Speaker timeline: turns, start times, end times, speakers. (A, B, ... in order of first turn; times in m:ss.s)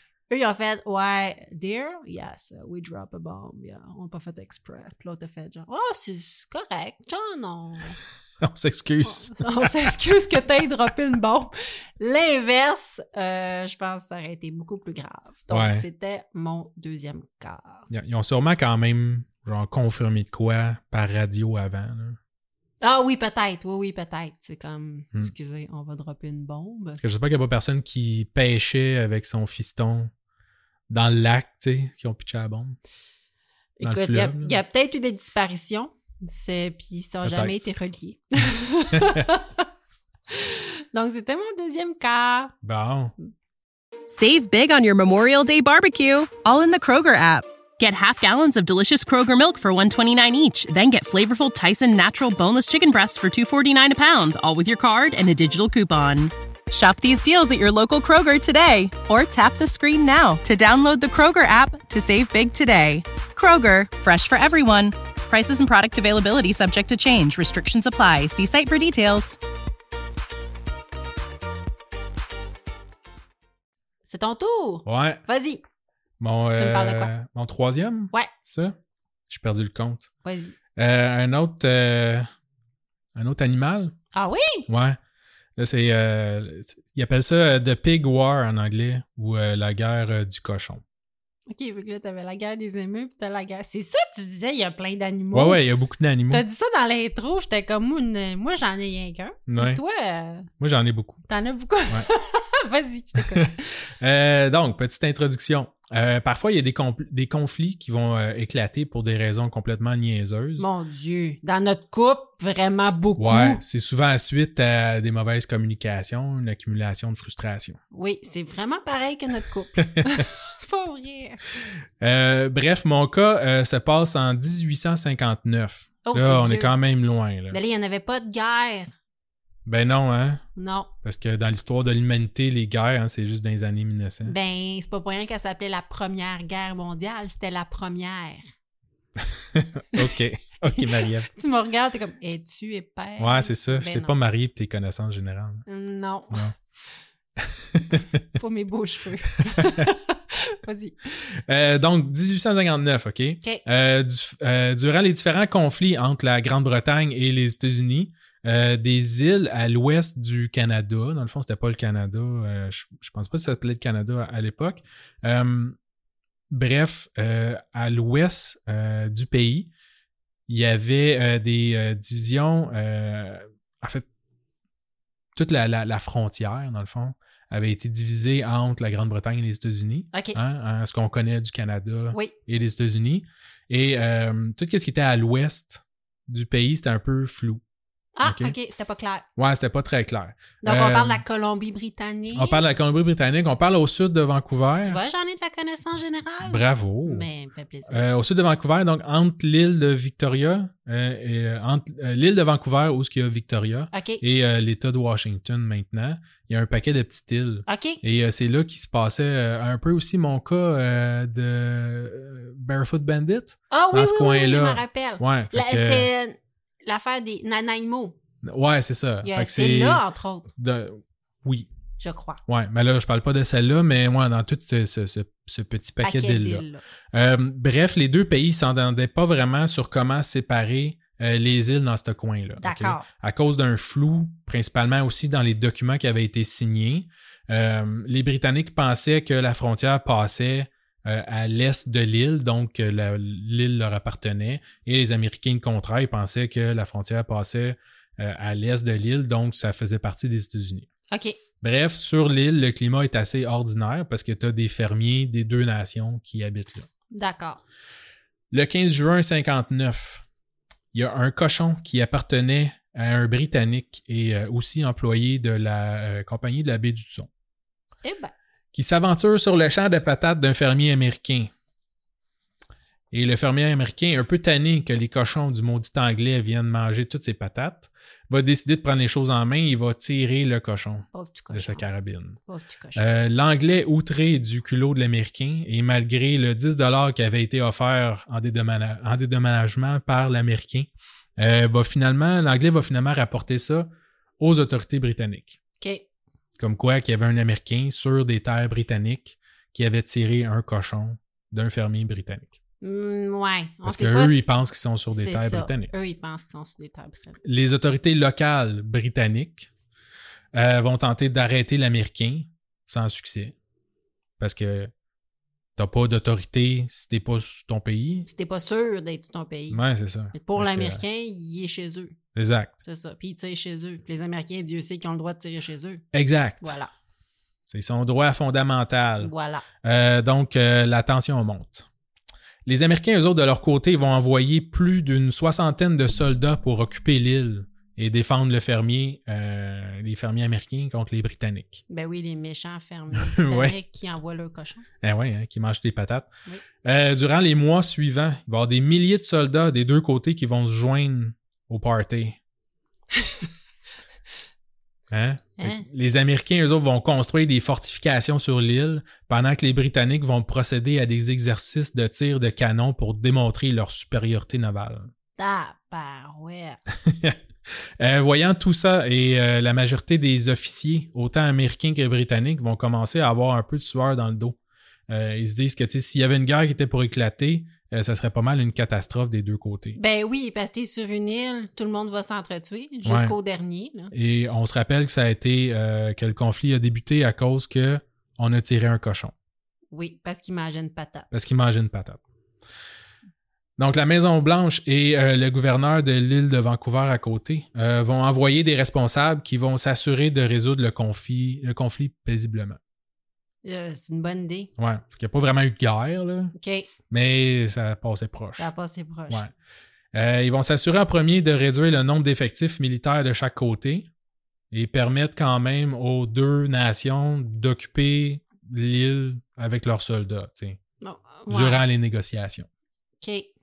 0:00.3-0:08.0 A
0:08.4-0:09.9 B
0:09.0-0:17.9 A
0:15.5-0:15.9 B
0:17.9-0:22.2 B
0:22.8-0:27.0 A
0:27.0-0:30.1 B
0:30.9-0:32.8 B
0:33.8-0:39.6 A
0:33.8-0:34.6 B
0:37.2-0:37.6 B
0:38.9-0:39.2 B
0:40.3-0:42.5 A
0:42.6-0:43.1 B
0:44.1-1:09.4 C
1:14.1-1:15.6 A
1:14.9-1:15.2 B
1:16.2-1:18.8 B
1:16.5-1:17.1 A
1:19.3-1:20.1 B
1:20.2-1:20.6 A
1:20.8-1:22.3 B
1:23.1-1:24.0 B
1:24.1-1:24.7 A
1:24.7-1:25.0 B
1:25.6-1:30.8 B
1:31.5-1:35.6 A
1:35.3-1:36.4 B
1:36.3-1:40.5 A
1:39.5-1:39.8 B
1:40.6-1:41.2 B
1:41.3-1:43.7 A
1:44.0-1:50.7 B
1:50.6-1:53.6 A
1:53.2-1:57.8 B
1:57.9-2:01.4 A
1:59.8-2:00.2 B
2:02.0-2:07.6 B
2:06.0-2:06.7 A
2:07.5-2:08.9 A
2:09.7-2:10.4 B
2:10.6-2:10.9 A
2:11.0-2:14.4 B
2:14.2-2:18.5 A
2:19.2-2:21.3 B
2:20.7-2:24.2 A
2:23.2-2:25.6 B
2:25.7-2:26.5 A
2:27.4-2:28.2 B
2:28.4-2:31.0 A
2:29.5-2:29.9 B
2:31.5-2:45.8 B
2:46.5-2:49.7 B
2:50.5-2:54.1 B
2:55.4-3:07.6 B
3:00.1-3:00.4 A
3:08.2-3:09.3 A
3:08.2-3:08.6 B
3:09.4-3:11.2 B
3:10.6-3:12.6 A
3:12.3-3:15.0 B
3:14.8-3:18.0 A
3:16.4-3:17.3 B
3:17.9-3:36.1 B
3:23.9-3:24.2 A
3:27.7-3:28.0 A
3:33.7-3:38.2 A
3:38.4-3:40.0 B
3:39.2-3:40.5 A
3:40.6-3:41.7 B
3:42.0-3:42.4 A
3:42.5-4:10.9 B
3:46.0-3:46.8 A
3:52.6-3:53.1 A
4:11.1-4:11.4 A
4:11.6-4:16.9 B
4:17.1-4:17.6 A
4:18.5-4:20.2 B
4:20.9-4:27.3 B
4:28.0-4:28.3 A
4:28.7-4:31.5 B
4:33.1-4:42.4 B
4:41.1-4:41.9 A
4:42.5-4:43.1 A
4:43.0-4:55.6 B
4:55.8-4:56.1 A
4:56.6-5:02.6 B
5:02.8-5:04.5 A
5:03.8-5:05.9 B
5:05.1-5:07.4 A
5:07.4-5:09.7 B
5:10.5-5:13.6 B
5:14.4-5:14.9 B
5:15.8-5:18.3 B
5:18.3-5:22.2 A
5:19.7-5:21.0 B
5:22.4-5:22.8 B
5:22.8-5:26.0 A
5:26.1-5:26.8 B
5:26.6-5:26.9 A
5:27.7-5:29.3 B
5:29.2-5:29.6 A
5:29.8-5:31.9 B
5:32.7-5:41.8 B
5:41.9-5:44.9 A
5:43.1-5:43.8 B
5:45.0-5:46.3 B
5:46.8-5:52.4 B
5:55.1-6:05.1 B
5:55.6-5:55.9 A
6:05.4-6:06.8 A
6:07.0-6:07.4 B
6:08.0-6:14.6 B
6:15.1-6:20.0 B
6:20.0-6:24.1 A
6:23.0-6:23.4 B
6:24.1-6:29.3 B
6:29.9-6:31.3 A
6:31.3-6:32.2 B
6:33.8-6:42.8 B
6:43.6-6:44.7 A
6:44.8-6:46.5 B
6:46.6-6:46.9 A
6:47.1-6:48.7 B
6:48.6-6:49.5 A
6:50.1-6:54.1 B
6:54.7-7:00.8 B
7:01.0-7:01.8 A
7:01.5-7:02.7 B
7:03.2-7:03.5 A